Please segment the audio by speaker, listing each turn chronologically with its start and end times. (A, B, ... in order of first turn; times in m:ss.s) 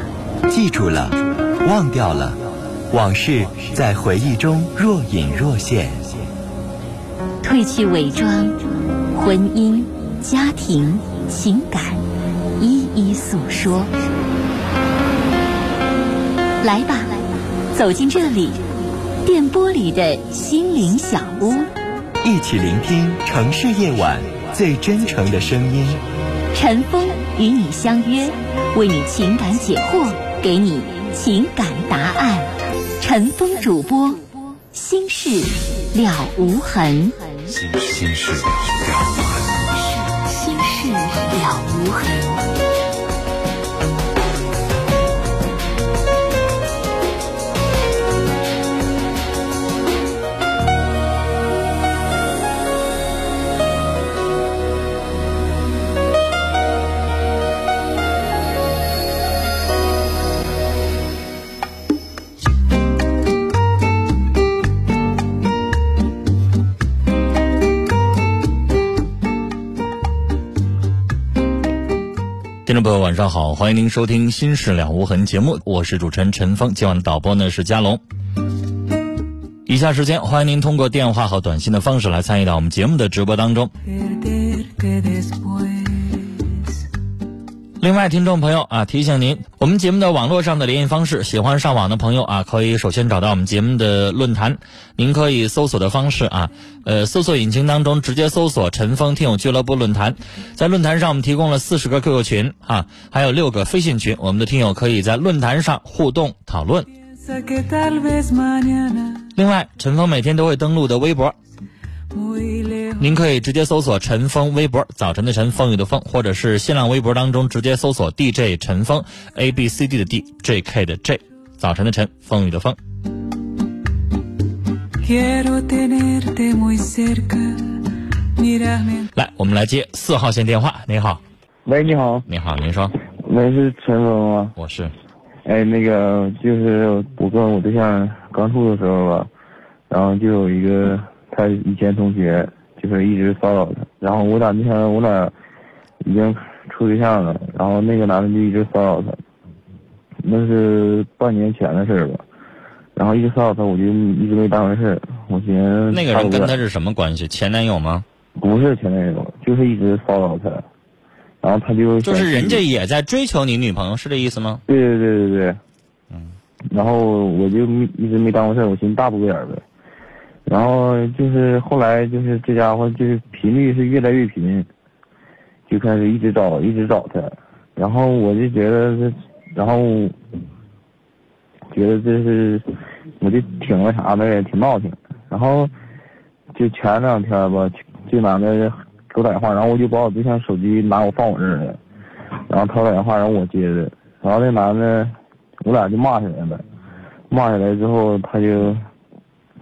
0:00.5-0:06.3 A
0:07.4-0:12.0 B
0:12.6-0:13.9 B
0:16.6-0:18.6 B
0:19.2-0:21.7 B
0:22.2-0:26.0 A
0:26.5-0:37.6 B
0:37.5-0:39.7 A
0:40.1-0:42.4 B
1:12.6-1:18.0 C
1:19.6-1:23.7 C
1:23.9-1:26.7 D
1:27.8-1:46.9 C
1:47.0-1:49.2 D
1:49.4-1:51.3 C
1:52.1-1:53.2 D
1:53.0-2:02.8 C
2:05.0-2:07.8 D
2:08.4-2:09.1 D
2:09.1-2:11.2 C
2:11.6-2:12.3 E
2:12.3-2:12.9 C
2:13.0-2:14.6 E
2:14.6-2:14.9 C
2:15.4-2:19.3 E
2:19.9-2:25.3 E
2:26.0-2:29.2 E
2:30.2-2:32.2 E
2:33.0-2:36.6 E
2:35.9-2:38.0 C
2:38.4-2:40.6 E
2:41.4-2:42.6 E
2:42.0-2:44.6 C
2:44.7-2:45.6 E
2:46.7-2:49.6 E
2:50.5-2:54.7 E
2:55.7-3:00.2 E
3:01.7-3:05.7 E
3:06.5-3:11.8 E
3:12.5-3:16.6 E
3:17.3-3:18.8 E